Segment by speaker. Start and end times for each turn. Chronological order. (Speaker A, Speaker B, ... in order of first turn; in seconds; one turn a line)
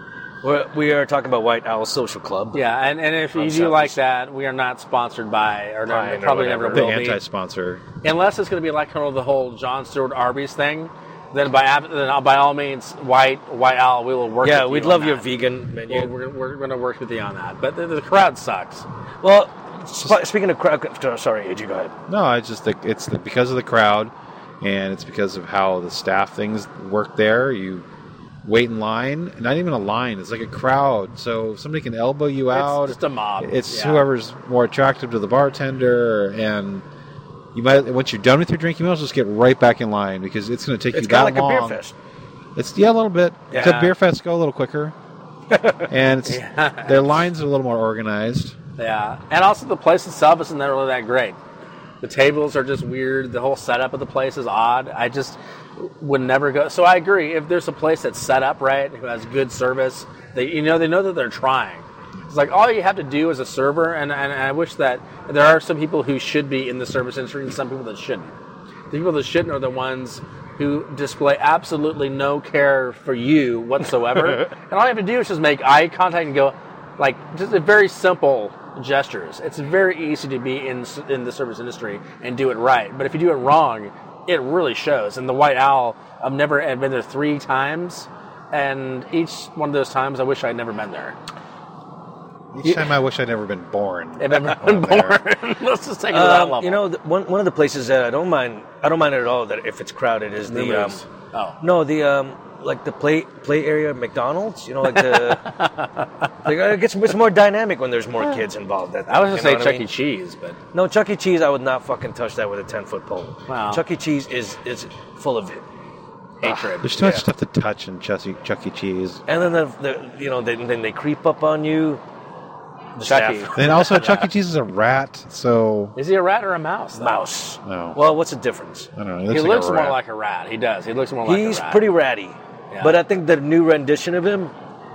Speaker A: 0.4-2.6
Speaker B: 2.5-7.2
Speaker A: 3.3-4.0
Speaker A: 5.9-6.9
Speaker C: 6.7-7.8
Speaker B: 8.0-15.2
Speaker A: 14.4-16.1
Speaker B: 15.9-18.9
Speaker A: 19.2-22.0
Speaker C: 22.1-27.9
Speaker C: 28.4-36.8
Speaker B: 32.5-34.1
Speaker C: 37.5-41.8
Speaker A: 40.9-41.9
Speaker C: 42.5-44.9
Speaker A: 43.5-43.9
Speaker B: 43.5-43.9
Speaker A: 45.5-45.9
Speaker C: 45.9-48.5
Speaker B: 46.2-47.1
Speaker B: 48.8-51.4
Speaker B: 52.0-68.3
Speaker B: 68.9-91.2
Speaker C: 92.5-95.2
Speaker B: 92.6-92.9
Speaker B: 94.2-96.8
Speaker A: 96.1-101.0
Speaker B: 100.5-101.6
Speaker A: 101.6-105.5
Speaker B: 104.9-106.1
Speaker A: 106.4-109.8
Speaker B: 109.1-110.6
Speaker A: 110.7-115.6
Speaker B: 113.5-113.8
Speaker B: 116.4-117.0
Speaker A: 116.4-117.2
Speaker C: 116.8-119.2
Speaker A: 119.3-122.0
Speaker A: 123.0-124.3
Speaker B: 123.0-123.7
Speaker C: 123.5-125.9
Speaker B: 126.0-127.2
Speaker A: 127.0-128.9
Speaker C: 127.6-128.0
Speaker C: 128.9-130.0
Speaker B: 129.3-131.8
Speaker A: 131.2-134.5
Speaker B: 132.7-133.0